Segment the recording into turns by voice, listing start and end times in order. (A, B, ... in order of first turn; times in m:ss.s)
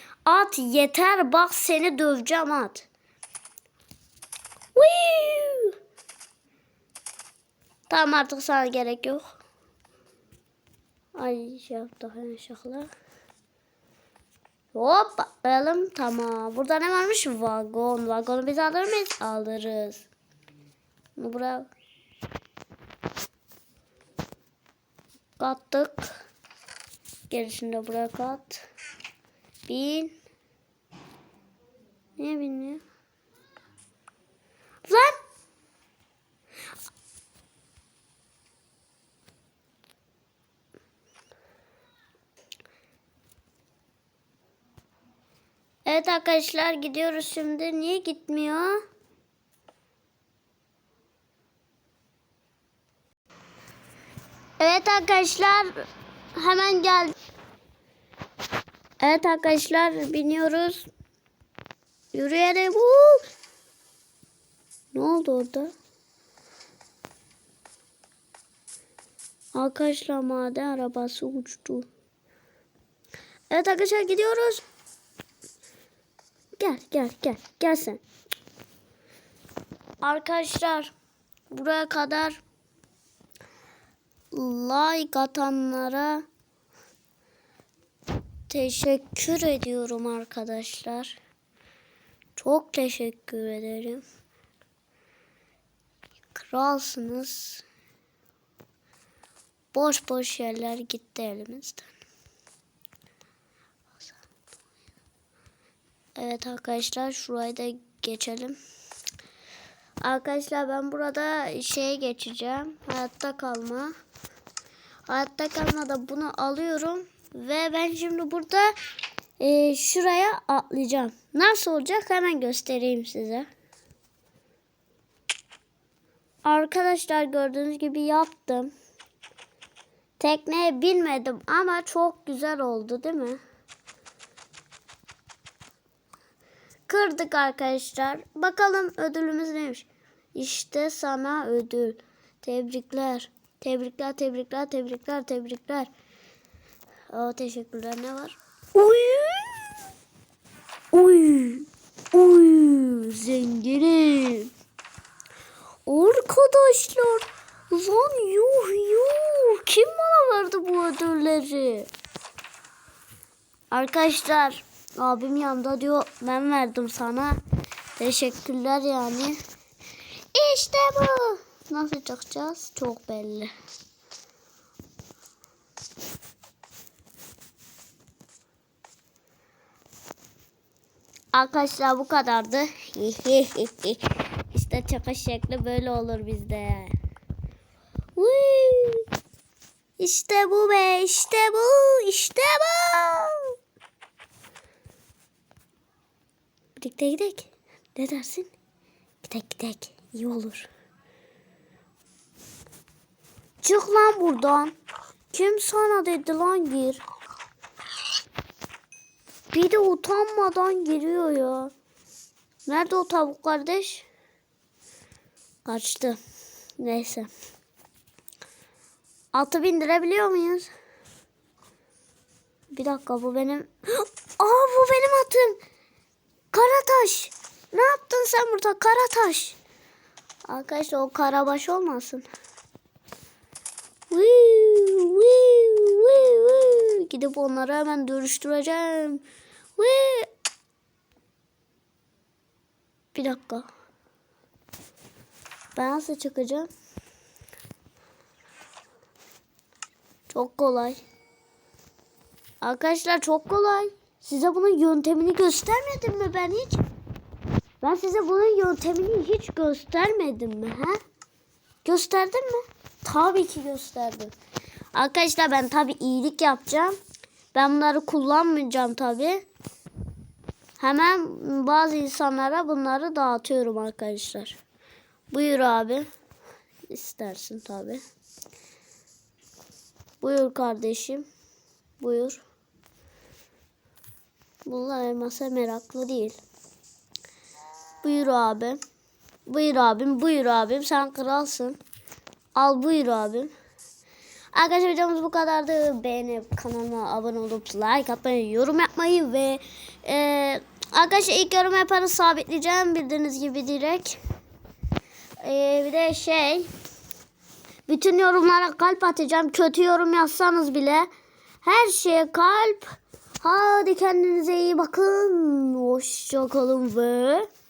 0:00.3-0:02.9 A
0:04.8-0:05.7 A
0:07.9-0:09.3 A
0:11.2-0:12.9 A
0:14.7-0:20.1 A
0:21.2-0:21.7 A
0:25.4-0:26.2 A
0:27.3-0:28.6 A
0:29.7-0:30.2 A
0:32.2-0:32.8 A
0:34.9-0:35.2 A
0:45.8-0:48.8 A
0:54.6-0:55.7 A
0:56.4-0:57.1 A
0:59.0-1:00.9 A
1:02.1-1:03.2 A
1:04.9-1:05.7 A
1:09.5-1:11.9 A
1:13.5-1:14.6 A
1:16.6-1:18.0 A
1:20.0-1:20.9 A
1:21.5-1:22.4 A
1:24.3-1:26.2 A
1:28.5-1:31.2 A
1:32.4-1:34.0 A
1:36.3-1:37.6 A
1:39.7-1:41.9 A
1:46.2-1:48.6 A
1:50.0-1:53.9 A
1:55.1-1:58.8 A
1:59.4-2:03.5 A
2:06.4-2:08.7 A
2:10.2-2:13.4 A
2:16.9-2:25.9 A
2:27.1-2:29.6 A
2:30.9-2:34.5 A
2:35.9-2:41.9 A
2:43.7-2:47.4 A
2:48.0-2:49.4 A
2:50.3-2:53.5 A
3:01.3-3:07.0 A
3:08.2-3:09.0 A
3:10.0-3:13.5 A
3:16.8-3:18.5 A
3:19.2-3:20.7 A
3:23.6-3:24.8 A
3:25.3-3:27.0 A
3:29.5-3:31.7 A
3:32.7-3:34.1 A
3:35.6-3:36.2 A
3:36.8-3:37.3 A
3:39.3-3:40.7 A
3:42.7-3:45.6 A
3:46.5-3:49.6 A
3:50.5-3:52.2 A
3:54.1-3:59.2 A
3:59.8-4:00.3 A
4:03.1-4:03.7 A
4:05.8-4:06.7 A
4:10.3-4:11.0 A
4:12.6-4:16.8 A
4:17.8-4:21.0 A
4:21.8-4:24.3 A
4:24.9-4:27.0 A
4:27.5-4:29.4 A
4:30.8-4:34.6 A
4:35.3-4:36.1 A
4:36.9-4:38.0 A
4:40.2-4:41.3 A
4:42.0-4:42.4 A
4:44.7-4:46.4 A
4:48.0-4:48.8 A
4:49.5-4:51.8 A
4:52.6-4:53.5 A
4:54.5-5:04.2 A
5:05.4-5:06.7 A
5:07.9-5:11.1 A
5:11.6-5:17.5 A